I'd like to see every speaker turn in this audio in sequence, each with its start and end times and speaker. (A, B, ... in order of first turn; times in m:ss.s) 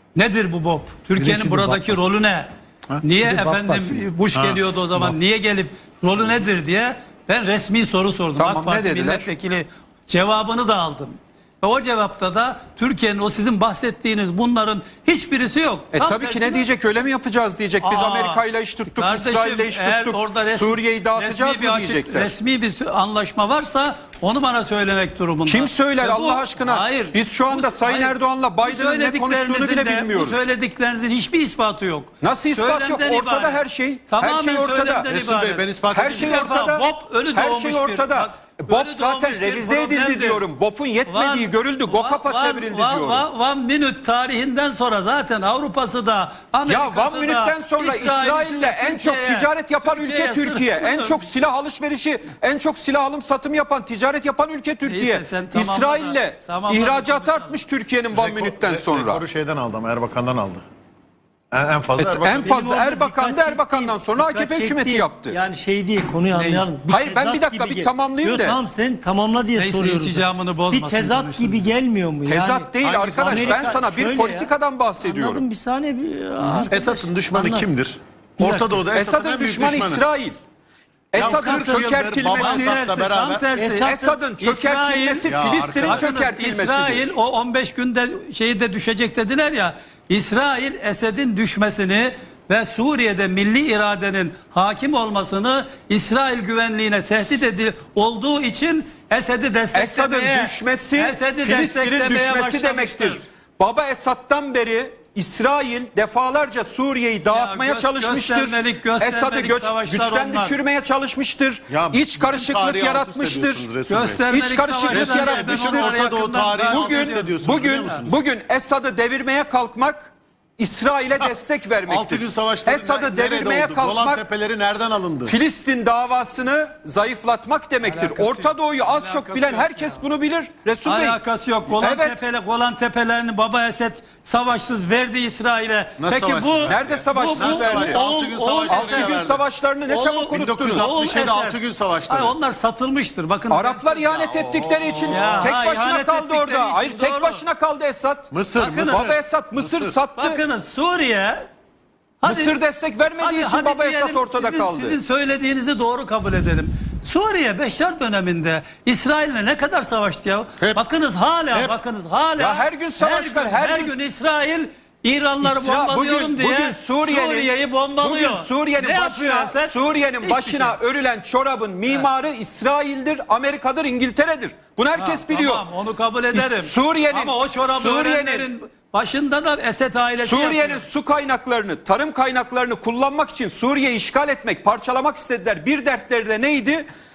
0:00.1-0:16.7 A
0:01.2-0:02.0 B
0:03.2-0:04.1 B
0:04.3-0:05.1 C
0:08.4-0:09.3 D
0:15.9-0:22.3 D
0:17.8-0:40.4 A
0:25.4-0:30.5 D
0:32.2-0:35.1 D
0:35.1-0:36.4 C
0:35.9-0:43.3 D
0:41.1-0:51.3 A
0:46.6-0:59.2 D
0:54.8-0:57.6 A
0:58.1-1:00.6 C
1:01.5-1:02.5 C
1:02.0-1:05.4 D
1:02.4-1:17.7 B
1:06.3-1:06.7 A
1:06.9-1:08.6 D
1:09.5-1:11.6 A
1:12.2-1:15.4 D
1:12.8-1:13.7 C
1:16.7-1:20.0 C
1:18.4-1:18.7 B
1:18.9-1:20.4 D
1:21.1-1:22.6 D
1:21.1-1:23.5 C
1:21.2-1:43.2 A
1:23.5-1:24.1 B
1:23.8-1:27.1 D
1:25.2-1:26.1 C
1:39.7-1:53.7 D
1:47.3-1:50.6 A
1:51.7-1:54.3 C
1:53.8-1:58.1 A
1:54.3-2:04.2 D
1:54.9-1:58.2 C
2:01.8-2:05.3 C
2:05.2-2:11.2 D
2:07.8-2:10.0 A
2:10.8-2:19.3 A
2:11.8-2:12.2 D
2:16.0-2:19.4 C
2:16.7-2:18.0 D
2:18.7-2:20.9 D
2:19.8-2:24.3 A
2:20.3-2:22.3 C
2:23.5-2:30.4 D
2:24.2-2:25.5 C
2:25.0-2:27.4 A
2:28.3-2:29.9 C
2:28.6-2:29.1 A
2:30.1-2:31.5 A
2:32.2-2:32.6 A
2:32.2-2:35.0 D
2:33.2-2:50.7 A
2:41.5-2:41.8 C
2:42.4-2:43.9 D
2:45.4-2:55.6 D
2:54.9-3:00.8 A
2:56.3-2:58.5 D
3:00.2-3:06.8 D